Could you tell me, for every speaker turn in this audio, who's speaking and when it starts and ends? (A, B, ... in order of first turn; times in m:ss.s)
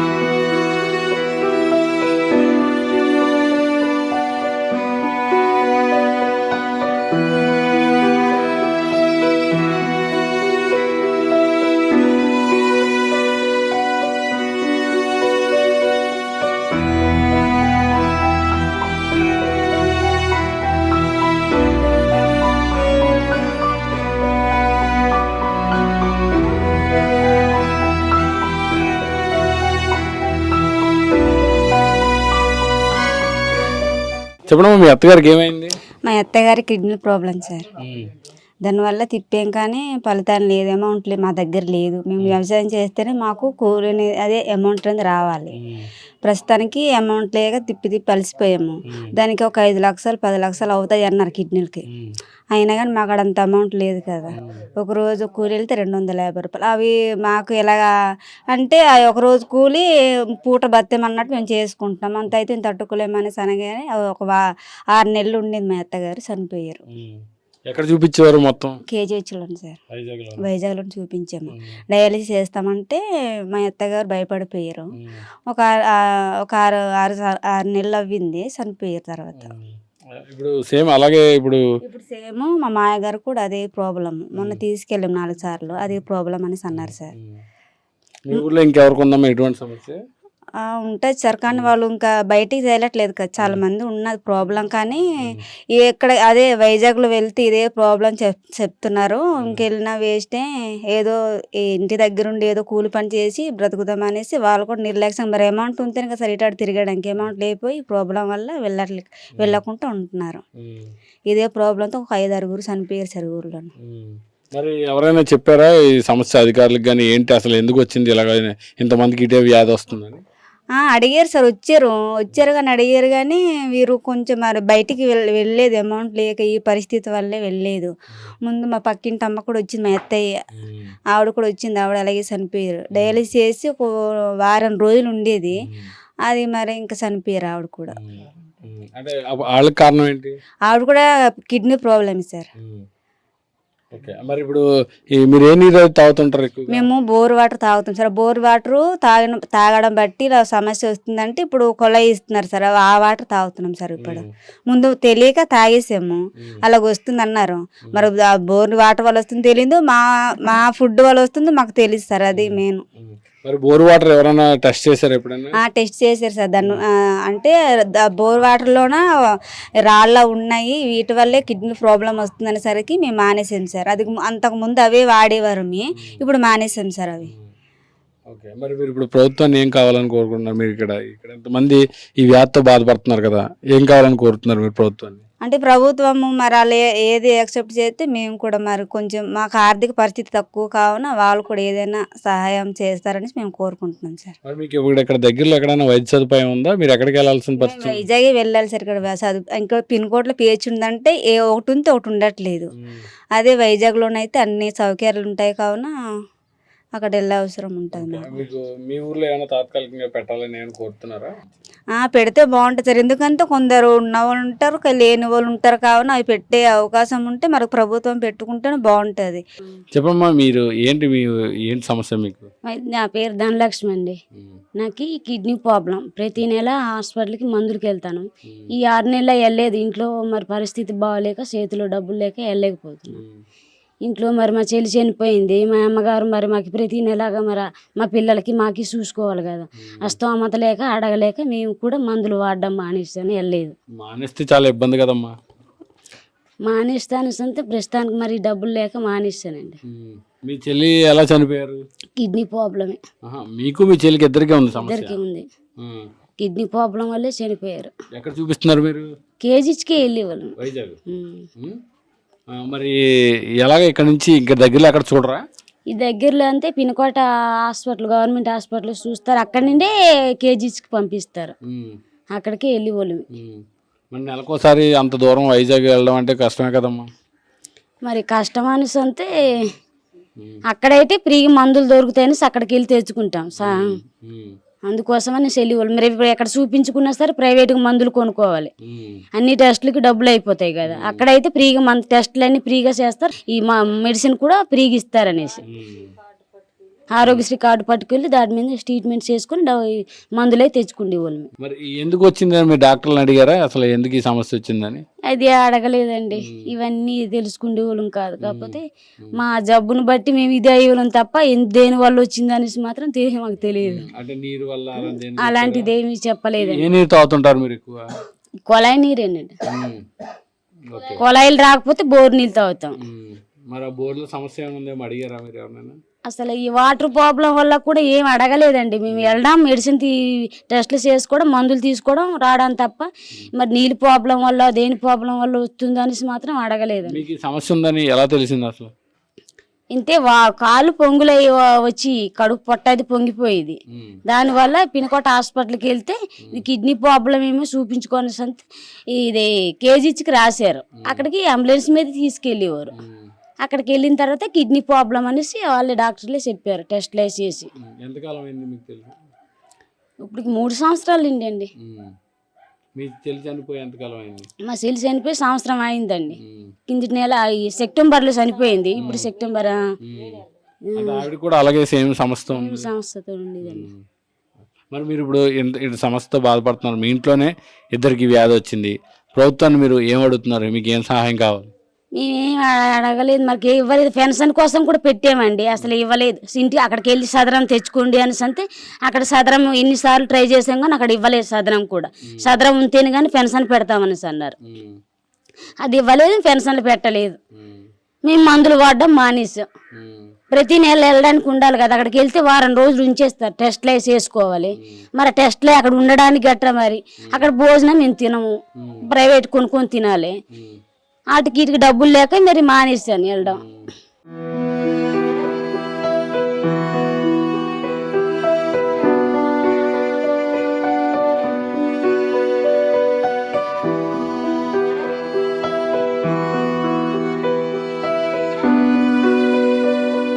0:34.5-0:35.8 A
0:36.1-0:37.6 B
0:37.8-0:38.1 A
0:38.6-0:45.5 B
0:45.6-0:45.9 A
0:46.2-0:51.8 B
0:48.9-0:49.1 A
0:51.9-0:52.2 A
0:52.5-0:57.9 B
0:54.3-0:54.6 A
0:58.5-0:59.8 B
1:00.4-1:04.3 B
1:04.9-1:06.8 B
1:06.9-1:08.8 A
1:08.9-1:09.8 B
1:09.9-1:10.4 A
1:10.4-1:13.0 B
1:11.5-1:11.8 A
1:13.5-1:14.9 B
1:16.4-1:19.5 B
1:19.4-1:21.6 A
1:21.8-1:27.1 B
1:24.4-1:24.6 A
1:26.7-1:27.4 A
1:28.2-1:30.0 A
1:30.7-1:35.0 B
1:35.8-1:50.4 B
1:39.4-1:39.6 A
1:50.6-1:50.9 A
1:51.3-1:53.7 B
1:53.8-2:00.2 A
2:00.8-2:07.9 B
2:08.4-2:10.2 B
2:10.6-2:10.9 A
2:11.1-2:13.9 B
2:12.9-2:13.2 A
2:14.4-2:15.5 B
2:16.3-2:17.9 B
2:17.9-2:20.4 A
2:20.7-2:22.5 B
2:22.6-2:22.8 A
2:23.9-2:26.9 A
2:26.7-2:42.8 B
2:34.0-2:34.3 A
2:42.3-2:45.6 A
2:45.6-2:47.5 B
2:48.1-2:49.0 B
2:49.9-2:57.3 B
2:58.3-3:05.2 A
3:05.4-3:14.3 B
3:14.4-3:18.0 A
3:17.6-3:22.7 B
3:22.8-3:23.0 A
3:23.4-3:25.9 B
3:27.0-3:28.4 B
3:27.9-3:31.3 A
3:32.0-3:39.4 B
3:39.9-3:42.5 A
3:42.6-3:44.2 C
3:44.3-3:44.6 A
3:44.8-3:53.2 C
3:48.4-3:48.7 A
3:53.1-3:53.4 A
3:54.0-4:03.7 C
3:59.8-4:00.2 A
4:04.0-4:05.3 A
4:06.6-4:09.8 C
4:09.8-4:11.8 A
4:12.2-4:13.0 C
4:13.2-4:15.2 A
4:14.7-4:15.4 C
4:15.8-4:16.1 A
4:16.4-4:17.9 C
4:18.1-4:19.1 A
4:19.4-4:20.5 C
4:20.6-4:21.0 A
4:21.1-4:21.4 C
4:22.5-4:23.0 A
4:23.6-4:25.4 A
4:25.9-4:31.5 C
4:31.6-4:32.0 A
4:32.3-4:33.2 C
4:33.3-4:37.1 A
4:38.0-4:39.3 C
4:40.7-4:43.9 C
4:43.6-4:44.6 A
4:44.8-4:48.7 C
4:48.8-4:49.2 A
4:49.3-4:55.6 C
4:50.8-4:51.2 A
4:55.7-4:56.1 A
4:57.1-5:01.5 C
5:01.6-5:05.0 A
5:05.3-5:14.0 C
5:06.4-5:06.7 A
5:08.4-5:09.4 A
5:13.8-5:15.9 A
5:15.0-5:16.9 C
5:16.6-5:18.0 A
5:18.7-5:19.6 C
5:19.6-5:20.0 A
5:20.8-5:21.2 A
5:21.2-5:23.0 C
5:23.0-5:26.0 A
5:26.2-5:37.2 C
5:29.1-5:29.4 A
5:37.1-5:38.9 A
5:39.9-5:53.0 C
5:43.9-5:44.2 A
5:51.0-5:51.2 A
5:52.9-5:53.3 A
5:53.6-5:57.7 C
5:57.8-5:59.1 A
6:00.3-6:01.7 C
6:01.8-6:02.1 A
6:03.0-6:04.5 A
6:04.6-6:09.8 C
6:06.4-6:06.7 A
6:09.0-6:09.3 A
6:10.0-6:10.4 A
6:10.9-6:11.3 C
6:11.0-6:12.9 A
6:12.5-6:13.9 C
6:13.6-6:14.0 A
6:14.9-6:21.7 A
6:22.1-6:34.6 C
6:32.2-6:32.5 A
6:34.6-6:35.0 A
6:35.8-6:37.4 C
6:37.5-6:37.9 A
6:38.2-6:39.7 C
6:39.9-6:40.3 A
6:40.5-6:50.3 C
6:47.2-6:47.5 A
6:48.8-6:49.0 A
6:50.5-6:50.8 A
6:51.3-6:53.6 C
6:53.5-6:53.9 A